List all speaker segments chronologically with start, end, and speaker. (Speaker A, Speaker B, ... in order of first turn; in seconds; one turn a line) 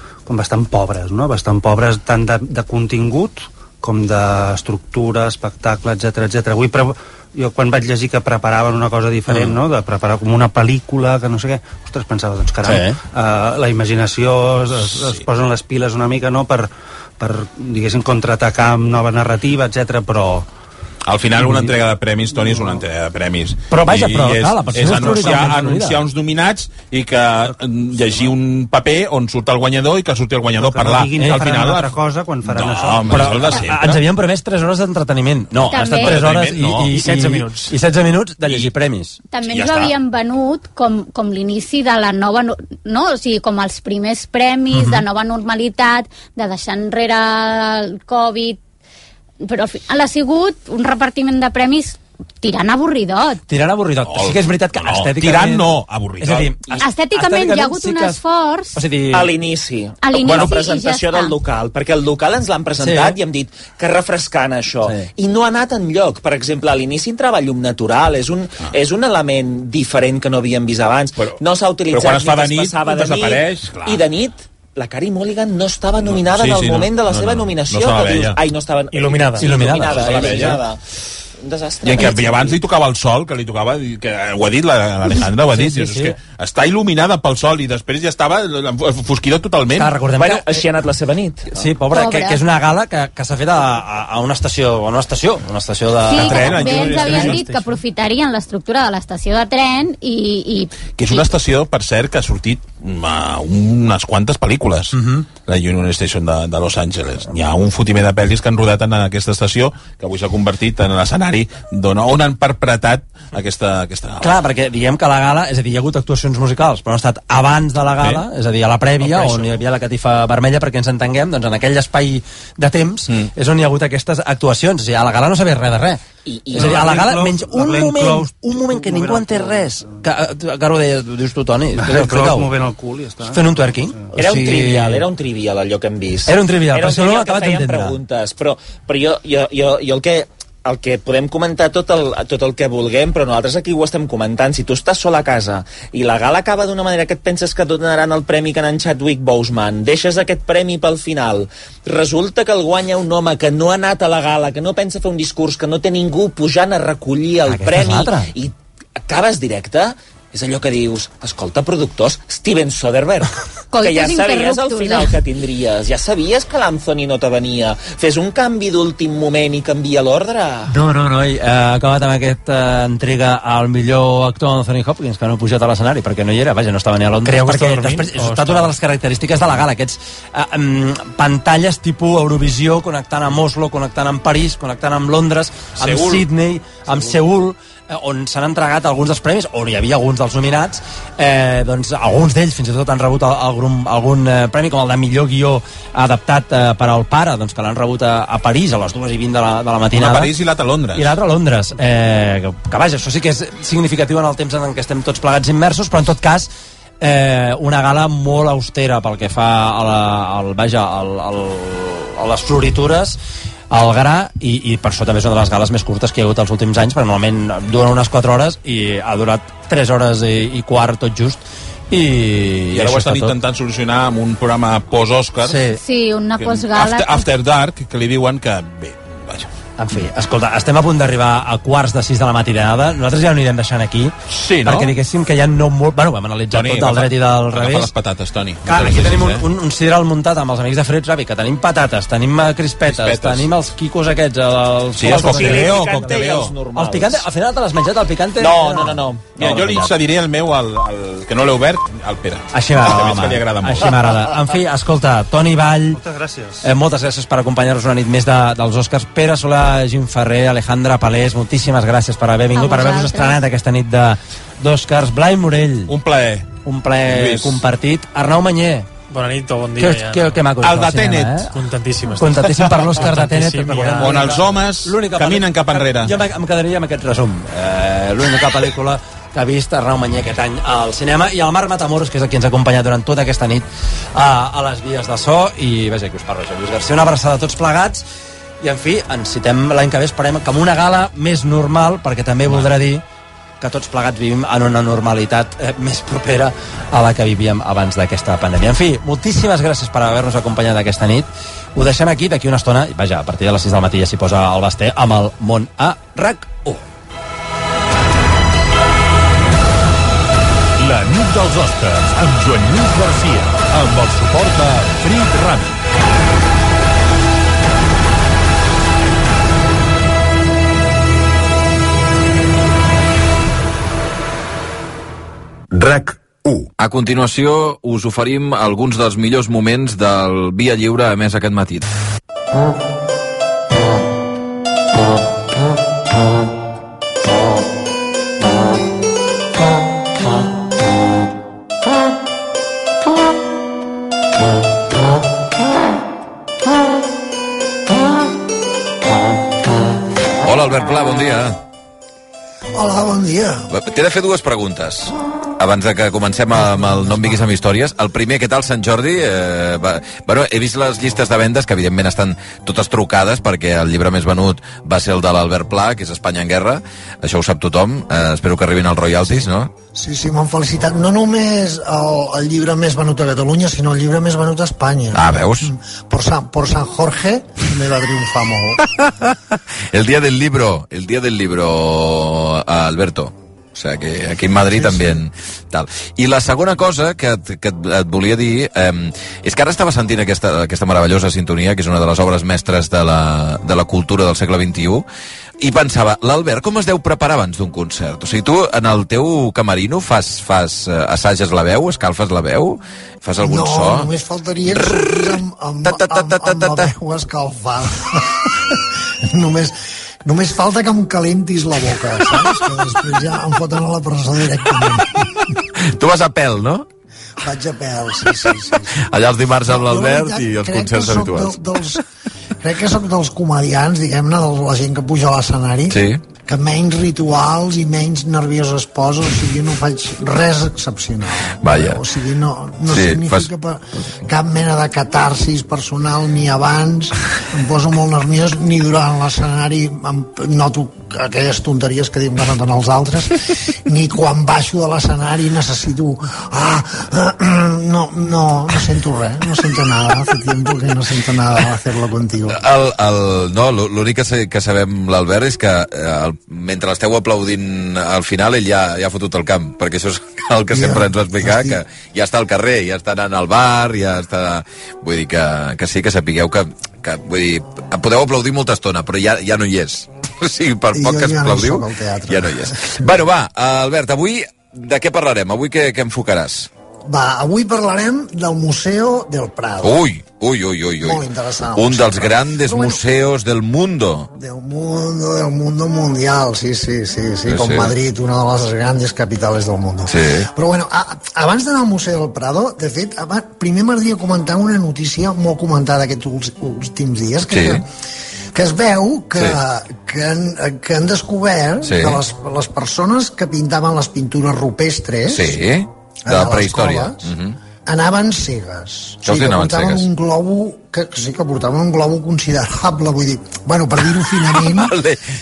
Speaker A: 0.3-20.5
Speaker B: 9.3-9.6
Speaker B: 12.6-13.0
Speaker C: 14.7-15.2
Speaker C: 21.1-34.0
Speaker B: 23.7-26.0
Speaker A: 28.1-28.3
Speaker A: 30.6-33.5
Speaker B: 31.1-31.5
Speaker B: 33.1-39.2
Speaker D: 35.6-36.2
Speaker C: 36.0-37.0
Speaker E: 36.9-37.7
Speaker D: 39.3-48.6
Speaker C: 39.4-39.9
Speaker B: 44.7-45.0
Speaker D: 49.4-53.4
Speaker B: 53.5-55.7
Speaker C: 54.0-56.6
Speaker B: 56.2-58.2
Speaker D: 56.8-58.8
Speaker B: 58.7-59.3
Speaker F: 59.1-80.8
Speaker D: 60.0-61.3
Speaker B: 62.8-63.2
Speaker C: 71.2-74.0
Speaker C: 76.0-78.4
Speaker E: 78.9-79.6
Speaker B: 79.4-80.6
Speaker C: 79.9-80.6
Speaker F: 81.4-82.6
Speaker C: 81.8-89.9
Speaker B: 85.2-86.2
Speaker B: 89.8-90.6
Speaker F: 90.2-91.5
Speaker B: 91.5-97.5
Speaker D: 91.9-92.4
Speaker D: 96.1-101.3
Speaker C: 96.1-97.6
Speaker C: 101.0-114.4
Speaker B: 104.9-105.3
Speaker B: 114.2-126.0
Speaker C: 119.0-119.5
Speaker F: 126.3-126.9
Speaker A: 126.5-129.8
Speaker B: 126.5-132.5
Speaker A: 131.8-134.1
Speaker B: 133.3-135.0
Speaker F: 134.2-170.7
Speaker B: 136.3-138.0
Speaker B: 157.5-158.3
Speaker D: 163.7-165.2
Speaker B: 170.7-200.3
Speaker E: 177.3-178.7
Speaker C: 185.8-186.3
Speaker C: 186.9-187.2
Speaker C: 199.9-201.1
Speaker B: 200.9-213.2
Speaker B: 213.7-223.4
Speaker C: 222.7-225.6
Speaker B: 225.4-225.8
Speaker D: 225.7-227.3
Speaker C: 226.4-229.5
Speaker B: 229.8-237.9
Speaker C: 234.3-234.9
Speaker C: 236.5-239.5
Speaker B: 238.7-246.2
Speaker C: 242.9-243.5
Speaker C: 245.0-246.5
Speaker F: 245.1-247.2
Speaker B: 246.8-249.9
Speaker F: 248.4-249.3
Speaker C: 249.4-254.2
Speaker B: 252.5-256.0
Speaker A: 255.9-256.7
Speaker B: 256.6-265.9
Speaker D: 262.5-263.4
Speaker C: 265.9-266.5
Speaker B: 266.6-268.9
Speaker C: 267.1-267.6
Speaker E: 269.1-270.4
Speaker B: 269.8-271.5
Speaker C: 270.6-271.4
Speaker E: 271.5-274.4
Speaker B: 272.2-288.1
Speaker C: 274.0-276.1
Speaker B: 288.6-293.0
Speaker C: 292.4-292.7
Speaker B: 293.6-306.8
Speaker G: 310.8-315.8
Speaker H: 326.8-331.8
Speaker H: 350.4-351.6
Speaker I: 352.8-353.7
Speaker H: 353.7-369.7
Speaker I: 356.6-357.3
Speaker I: 369.2-378.8
Speaker H: 375.1-375.7
Speaker H: 379.9-395.0
Speaker I: 384.6-385.2
Speaker H: 395.6-404.1
Speaker I: 403.4-415.3
Speaker H: 404.7-405.2
Speaker H: 405.9-406.9
Speaker H: 415.9-416.9
Speaker I: 417.4-419.0
Speaker H: 419.0-421.6
Speaker I: 419.7-422.0
Speaker I: 422.6-452.6
Speaker H: 425.9-426.2
Speaker H: 431.6-432.0
Speaker H: 432.9-433.5
Speaker H: 452.5-476.7
Speaker I: 460.7-461.8
Speaker I: 470.9-473.0
Speaker I: 477.1-480.0
Speaker H: 479.8-484.3
Speaker I: 481.0-483.0
Speaker I: 484.3-497.8
Speaker H: 487.5-487.9
Speaker H: 490.1-490.5
Speaker H: 497.5-497.8
Speaker I: 498.6-505.6
Speaker H: 501.8-502.2
Speaker H: 505.3-507.6
Speaker I: 506.3-507.3
Speaker I: 507.9-514.9
Speaker H: 509.3-510.1
Speaker H: 514.9-515.2